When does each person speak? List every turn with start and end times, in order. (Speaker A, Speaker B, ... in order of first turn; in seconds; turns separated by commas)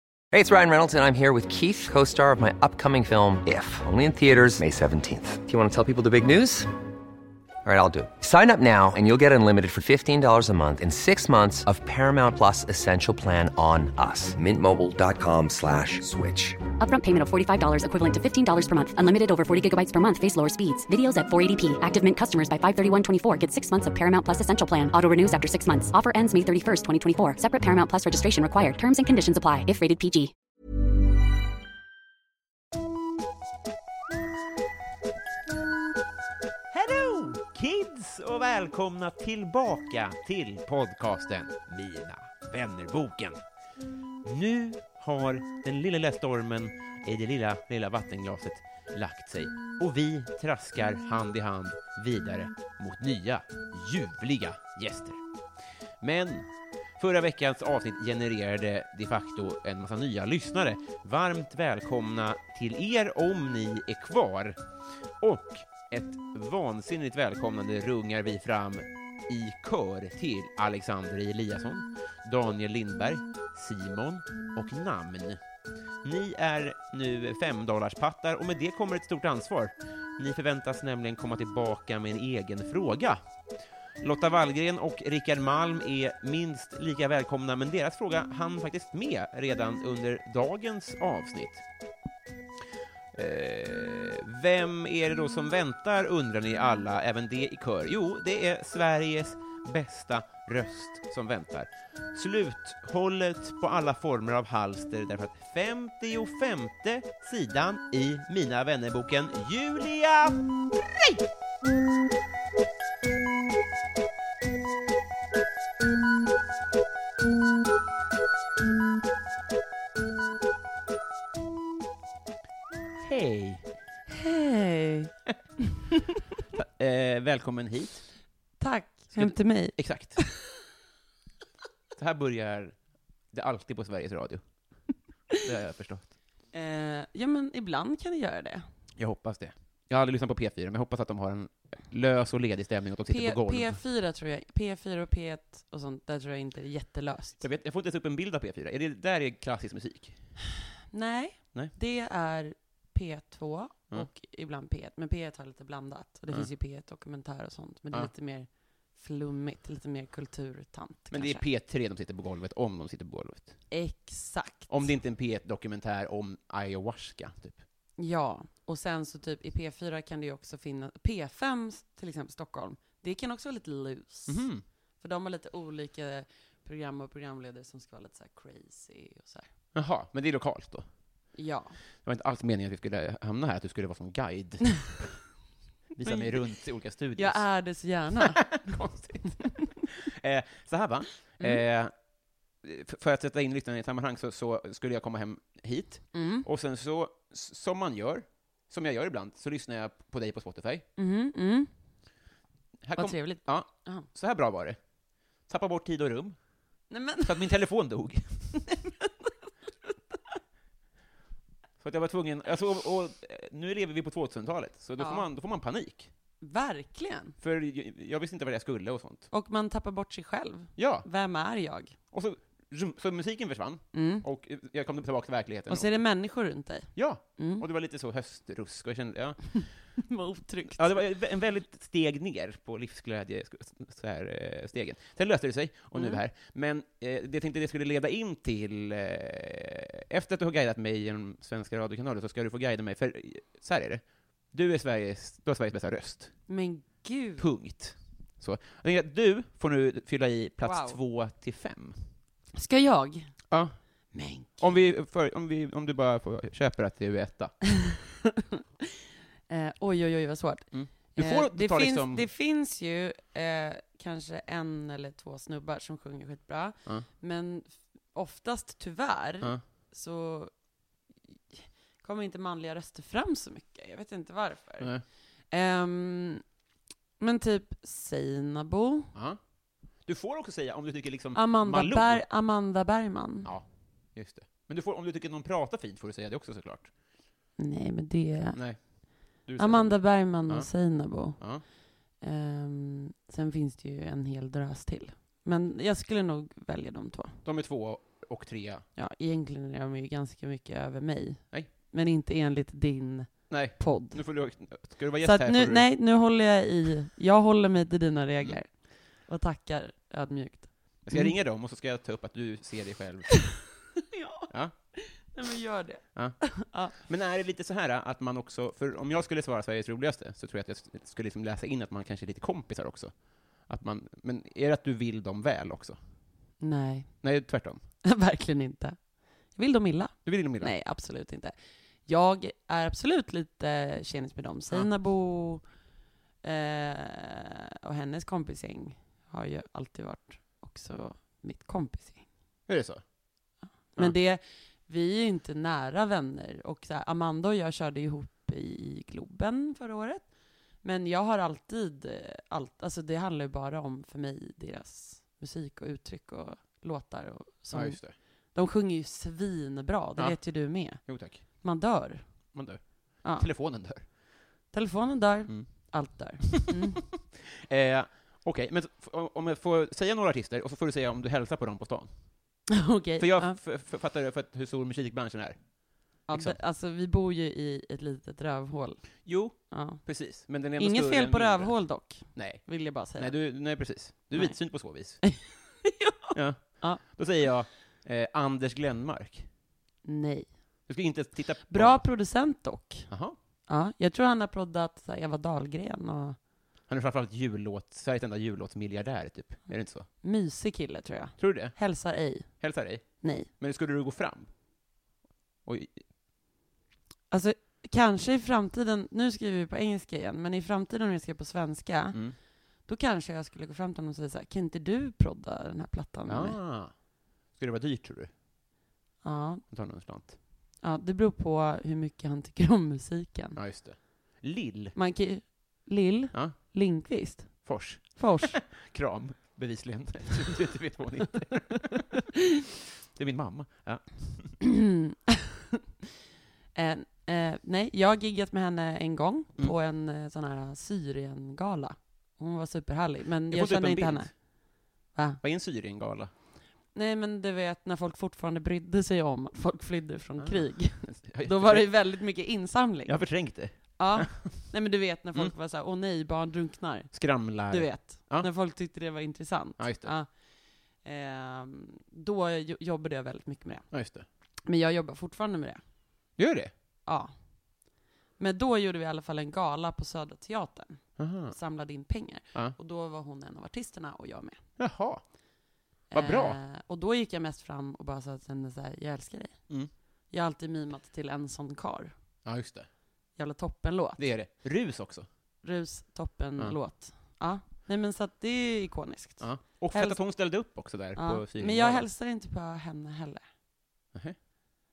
Speaker A: 0.3-6.7, Speaker A: 7.6-16.6, Speaker B: 16.8-30.3, Speaker C: 36.7-43.4, Speaker C: 44.2-55.2, Speaker C: 56.0-64.6, Speaker C: 65.2-75.4, Speaker C: 76.0-83.2, Speaker C: 84.0-91.6, Speaker C: 93.1-111.2, Speaker C: 123.0-123.8, Speaker D: 124.1-125.1, Speaker C: 126.5-128.1, Speaker D: 128.6-130.4, Speaker C: 129.1-130.2, Speaker C: 132.0-134.8, Speaker C: 135.4-136.2, Speaker D: 136.5-138.7, Speaker C: 139.0-143.8, Speaker D: 143.1-147.4, Speaker C: 147.4-150.3, Speaker D: 150.9-161.4, Speaker C: 161.1-163.6, Speaker D: 163.7-164.9, Speaker C: 164.7-167.6, Speaker D: 168.0-174.5, Speaker C: 174.3-174.6, Speaker D: 175.0-179.5, Speaker C: 179.7-180.9, Speaker D: 181.3-181.8, Speaker C: 182.0-185.2, Speaker C: 185.9-187.5, Speaker D: 186.0-186.5, Speaker D: 187.2-188.8, Speaker C: 188.2-191.9, Speaker C: 192.6-200.9, Speaker D: 196.1-196.5, Speaker D: 201.0-201.7, Speaker C: 202.8-204.8, Speaker D: 203.0-204.1, Speaker C: 205.5-206.4, Speaker D: 206.9-207.5, Speaker C: 207.2-208.6, Speaker D: 208.7-209.3, Speaker D: 209.8-210.3, Speaker C: 211.8-216.1, Speaker D: 215.0-215.3, Speaker D: 216.4-217.4, Speaker C: 217.4-219.3, Speaker D: 219.3-222.0, Speaker C: 220.8-221.1, Speaker C: 222.1-225.9, Speaker D: 223.9-224.2, Speaker D: 225.7-227.7, Speaker C: 226.9-229.9, Speaker D: 230.0-231.0, Speaker C: 230.8-246.3, Speaker D: 235.9-236.2, Speaker D: 246.5-247.5, Speaker C: 247.4-252.0, Speaker D: 250.6-251.0, Speaker D: 252.5-253.3, Speaker C: 253.5-253.8, Speaker D: 254.1-254.6, Speaker C: 254.6-257.6, Speaker D: 258.4-258.8, Speaker D: 259.5-270.5, Speaker C: 260.7-262.3, Speaker D: 271.5-276.4, Speaker D: 277.2-279.1, Speaker C: 279.1-279.4, Speaker C: 280.0-282.2, Speaker D: 281.3-283.5, Speaker C: 283.4-286.9, Speaker D: 287.6-288.6, Speaker C: 288.5-291.6, Speaker D: 289.6-291.4, Speaker D: 292.2-297.4, Speaker C: 297.4-298.9, Speaker D: 298.9-304.2, Speaker C: 303.5-305.9, Speaker D: 305.2-311.3, Speaker C: 311.0-313.7, Speaker D: 314.1-316.9, Speaker C: 316.1-326.0, Speaker D: 326.6-327.2, Speaker C: 327.2-327.8, Speaker D: 328.0-331.5, Speaker C: 330.2-330.7, Speaker D: 332.1-335.6, Speaker D: 336.4-342.2, Speaker C: 342.7-343.0, Speaker D: 343.9-350.3, Speaker D: 350.8-362.5, Speaker C: 357.7-358.1, Speaker C: 360.2-361.4, Speaker C: 362.5-364.1, Speaker D: 363.2-363.5, Speaker D: 364.7-367.0, Speaker C: 365.5-372.6, Speaker D: 372.7-373.6, Speaker C: 373.2-376.6, Speaker D: 376.3-380.0, Speaker C: 379.2-385.2, Speaker D: 380.8-383.4, Speaker D: 384.3-384.6, Speaker D: 385.2-387.0, Speaker C: 386.3-389.5, Speaker D: 390.0-390.5, Speaker C: 390.9-392.1, Speaker D: 391.7-393.1, Speaker C: 393.1-393.4, Speaker D: 393.7-396.4, Speaker C: 396.9-400.1, Speaker D: 400.2-403.5, Speaker C: 401.4-401.8, Speaker C: 402.6-404.5, Speaker C: 405.6-406.0, Speaker D: 407.3-412.2, Speaker D: 412.8-416.6, Speaker C: 416.2-416.9, Speaker C: 417.5-418.3, Speaker D: 419.2-419.6, Speaker C: 419.7-420.4, Speaker D: 420.8-423.6, Speaker C: 423.5-424.9, Speaker D: 424.9-428.6, Speaker C: 427.6-432.1, Speaker C: 433.1-434.6, Speaker D: 434.6-434.9, Speaker D: 436.7-445.4, Speaker C: 443.5-444.3, Speaker C: 445.4-446.3, Speaker D: 446.9-453.2, Speaker C: 450.4-451.9, Speaker C: 453.1-454.6, Speaker D: 453.7-463.9, Speaker C: 457.1-458.5, Speaker C: 459.8-460.1, Speaker C: 463.9-464.2, Speaker D: 464.7-465.8, Speaker C: 466.4-466.7, Speaker D: 467.1-467.3, Speaker D: 468.4-474.6, Speaker C: 471.2-471.6, Speaker C: 474.8-475.2, Speaker D: 476.1-479.6, Speaker C: 476.1-476.6, Speaker D: 480.3-482.1, Speaker C: 482.4-482.9, Speaker D: 483.4-484.2, Speaker C: 484.2-485.3, Speaker D: 485.6-490.2, Speaker C: 489.4-492.1, Speaker D: 491.1-493.4